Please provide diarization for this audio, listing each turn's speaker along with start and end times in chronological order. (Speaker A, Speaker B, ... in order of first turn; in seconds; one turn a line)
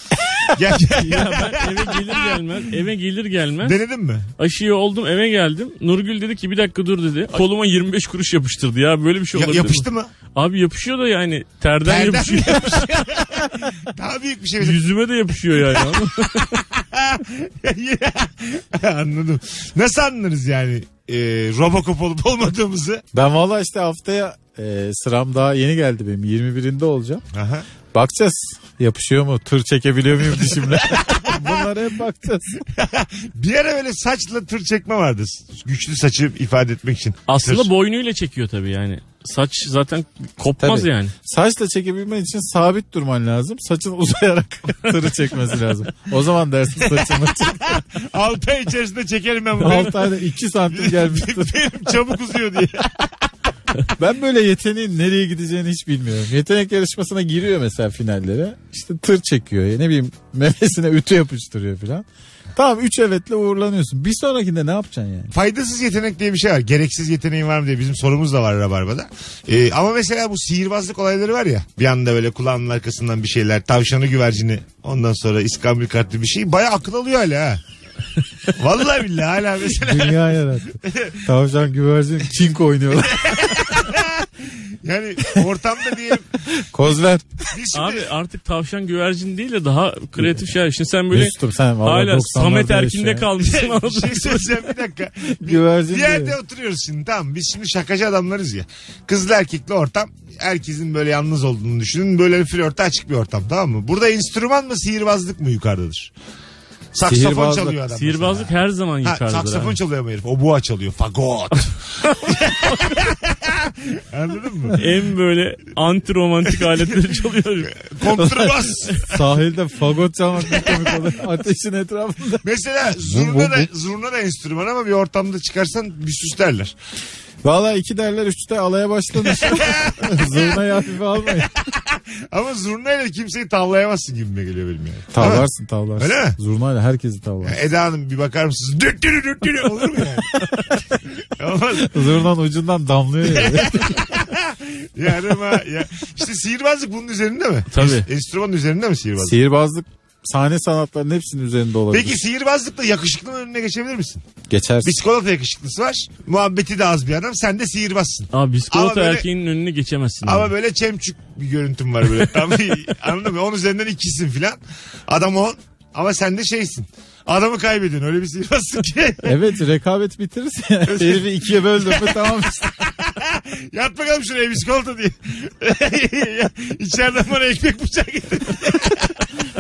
Speaker A: 0.5-2.0
Speaker B: 1.0-3.8
Speaker A: 3.6-4.3
Speaker B: 4.4-13.0
Speaker A: 9.3-10.1
Speaker A: 11.9-14.8
Speaker B: 14.6-16.6
Speaker A: 16.6-23.0
Speaker C: 23.1-27.2
Speaker A: 27.3-27.7
Speaker C: 27.9-32.5
Speaker A: 30.6-31.4
Speaker A: 32.7-37.7
Speaker B: 37.3-41.1
Speaker C: 40.6-47.8
Speaker A: 47.7-50.1
Speaker C: 49.6-51.8
Speaker A: 50.7-53.1
Speaker C: 54.0-65.3
Speaker A: 65.3-77.6
Speaker A: 78.5-81.2
Speaker C: 79.8-83.6
Speaker A: 83.2-86.3
Speaker C: 86.5-87.3
Speaker A: 87.5-88.1
Speaker B: 87.7-94.6
Speaker C: 91.1-93.3
Speaker A: 93.4-106.1
Speaker C: 95.4-96.3
Speaker A: 106.9-108.5
Speaker C: 107.0-107.8
Speaker B: 107.9-109.8
Speaker A: 109.0-114.8
Speaker B: 114.8-117.8
Speaker A: 117.8-119.2
Speaker C: 118.2-122.4
Speaker A: 120.5-120.8
Speaker A: 122.4-126.8
Speaker C: 123.0-123.7
Speaker C: 127.4-131.5
Speaker A: 129.2-130.6
Speaker A: 131.3-136.4
Speaker C: 135.1-137.6
Speaker A: 137.4-140.5
Speaker A: 141.1-142.2
Speaker C: 141.9-144.0
Speaker A: 143.3-149.4
Speaker B: 147.7-148.1
Speaker C: 149.2-152.2
Speaker A: 151.9-154.2
Speaker C: 154.5-155.0
Speaker A: 154.8-159.2
Speaker B: 158.3-160.5
Speaker A: 160.2-169.3
Speaker C: 169.2-172.7
Speaker A: 170.9-172.2
Speaker A: 172.9-179.1